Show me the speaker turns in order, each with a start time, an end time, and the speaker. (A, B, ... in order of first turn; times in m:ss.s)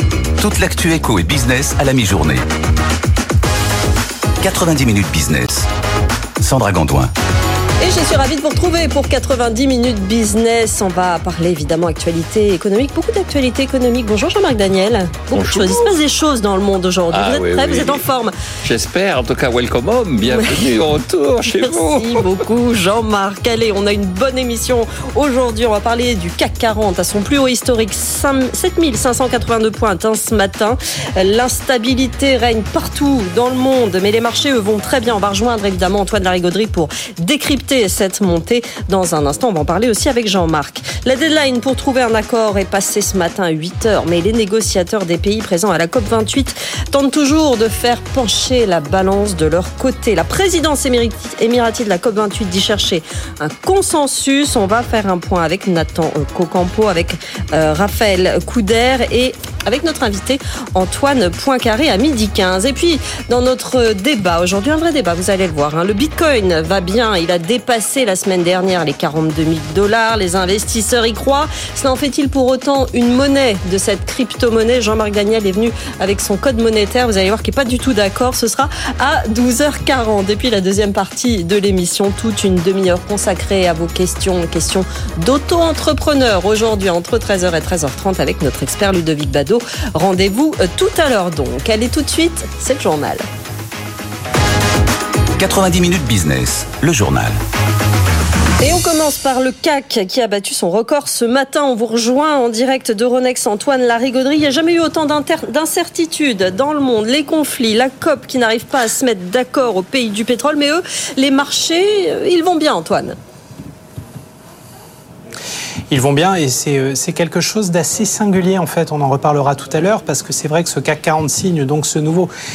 0:00.4-0:02.4 A
0:04.4-0:05.7 A
0:06.4-0:07.1 A
0:07.8-0:18.3 B
0:15.3-0:15.9 C
0:17.1-0:18.0 C
0:18.6-0:22.2 C
0:20.3-0:20.7 B
0:21.5-1:33.2 B
1:35.4-1:37.4 A
1:38.6-1:53.2 B
1:55.9-2:02.3 D